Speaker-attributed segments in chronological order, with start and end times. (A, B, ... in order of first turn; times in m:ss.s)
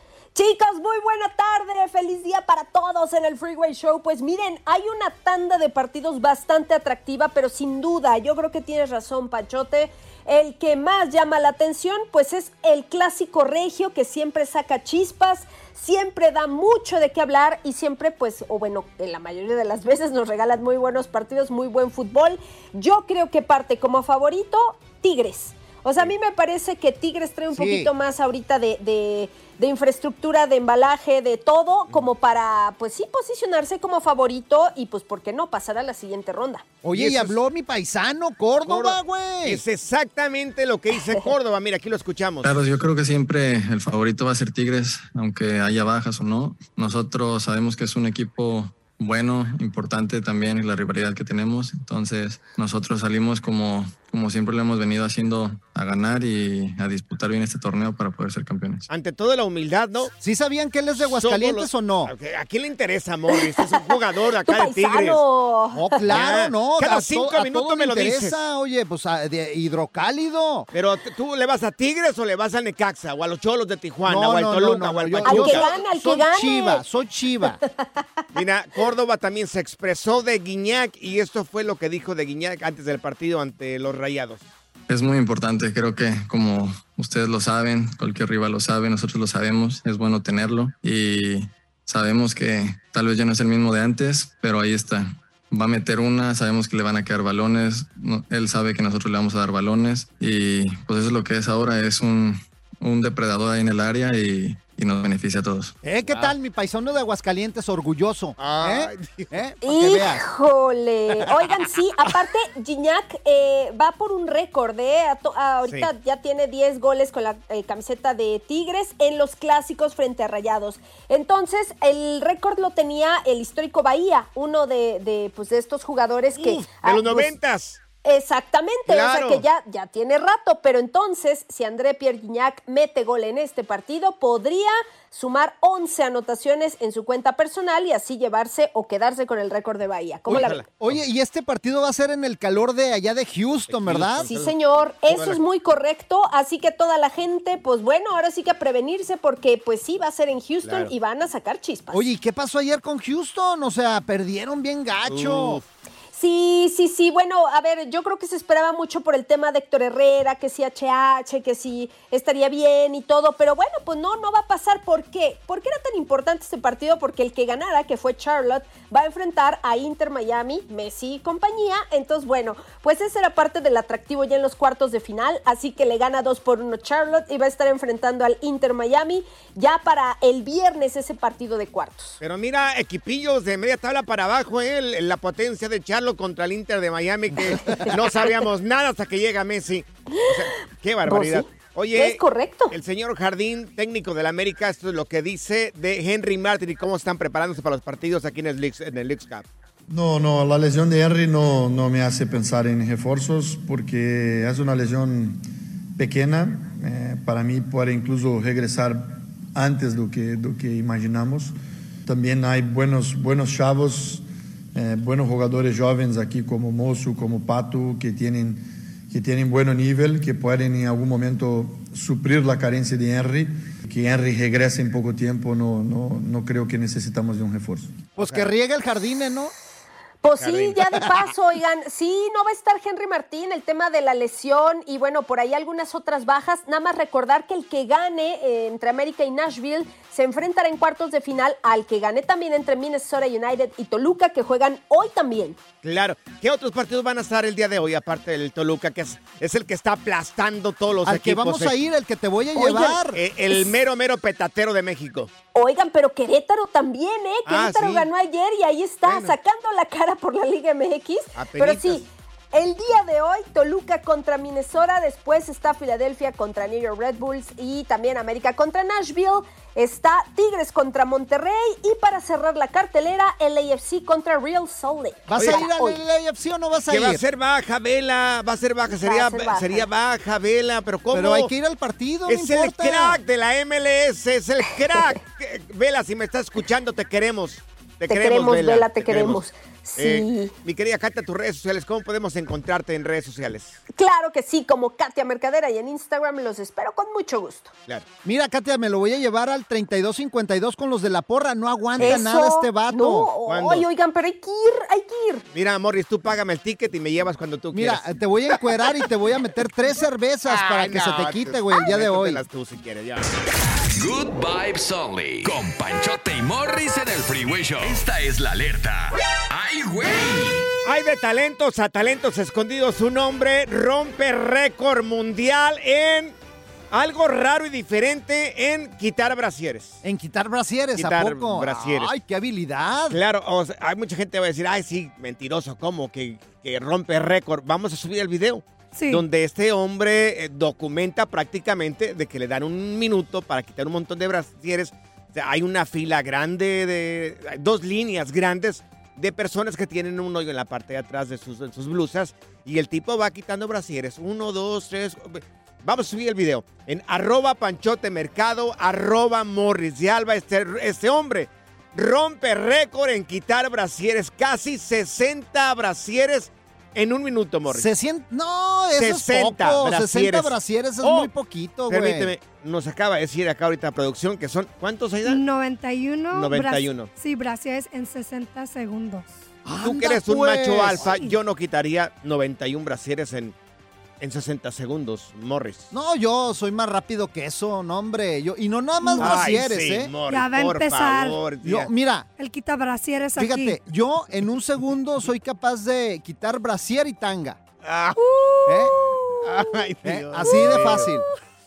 0:00.4-0:36.6 A
0:27.5-0:27.9 B
0:36.8-0:39.6 B
0:36.9-0:37.4 C
0:38.7-0:42.5 C
0:42.4-0:58.9 D
0:58.9-1:00.1 C
1:00.1-1:02.1 B
1:01.0-1:05.2 C
1:03.4-1:06.2 A
1:05.7-1:10.7 B
1:06.1-1:08.4 C
1:10.7-1:15.6 C
1:14.0-1:17.6 B
1:15.2-1:16.8 A
1:17.4-1:18.0 A
1:18.3-1:24.4 C
1:24.9-1:45.7 D
1:45.8-1:50.2 B
1:46.0-1:46.4 C
1:48.4-1:49.4 C
1:49.6-2:07.3 A
2:06.4-2:07.8 C
2:08.0-2:20.7 A
2:08.9-2:09.4 C
2:20.3-2:21.0 C
2:20.3-2:24.3 B
2:23.7-2:24.5 C
2:24.3-2:32.1 A
2:25.1-2:25.4 C
2:30.6-2:30.9 C
2:31.9-2:35.6 B
2:35.0-2:35.6 C
2:36.1-3:02.2 A
3:02.2-3:19.5 C
3:11.1-3:12.7 A
3:19.9-3:25.4 E
3:26.0-3:31.5 E
3:32.1-3:34.2 E
3:34.8-3:48.1 E
3:48.2-3:49.5 B
3:48.2-3:48.5 C
3:50.2-4:05.6 A
3:50.4-3:50.9 C
4:05.8-4:11.8 C
4:11.0-4:13.2 B
4:12.6-4:13.0 A
4:12.8-4:15.3 C
4:15.6-4:36.0 A
4:17.5-4:18.1 C
4:19.0-4:19.4 C
4:21.4-4:22.0 C
4:35.3-4:37.2 B
4:35.4-4:35.6 C
4:36.9-4:41.5 C
4:38.9-4:39.9 A
4:41.1-4:43.2 B
4:42.3-4:49.4 C
4:48.1-4:50.5 A
4:50.0-4:53.8 C
4:54.0-4:57.7 A
4:58.2-5:03.3 B
5:02.0-5:05.4 A
5:03.5-5:03.9 C
5:05.5-5:08.1 C
5:07.7-5:12.4 B
5:10.5-5:13.3 C
5:14.0-5:20.7 F
5:20.8-5:26.4 C
5:26.9-5:30.0 C
5:30.0-5:33.2 B
5:31.0-5:32.1 C
5:33.1-6:07.9 C
5:38.9-5:39.2 G
6:07.7-6:12.3 B
6:09.0-6:11.3 C
6:11.9-6:15.4 C
6:15.2-6:19.3 G
6:16.3-6:17.1 C
6:19.6-6:21.1 B
6:19.8-6:23.6 C
6:21.0-6:21.3 G
6:24.2-6:25.9 C
6:25.9-6:30.1 B
6:29.0-6:29.5 G
6:29.2-6:31.9 C
6:30.2-6:31.4 G
6:31.6-6:32.3 B
6:32.4-6:33.8 G
6:33.4-6:37.6 B
6:37.8-6:38.2 C
6:38.2-6:39.8 G
6:38.7-6:39.0 B
6:39.4-6:41.1 C
6:40.0-6:41.2 B
6:40.4-6:41.3 G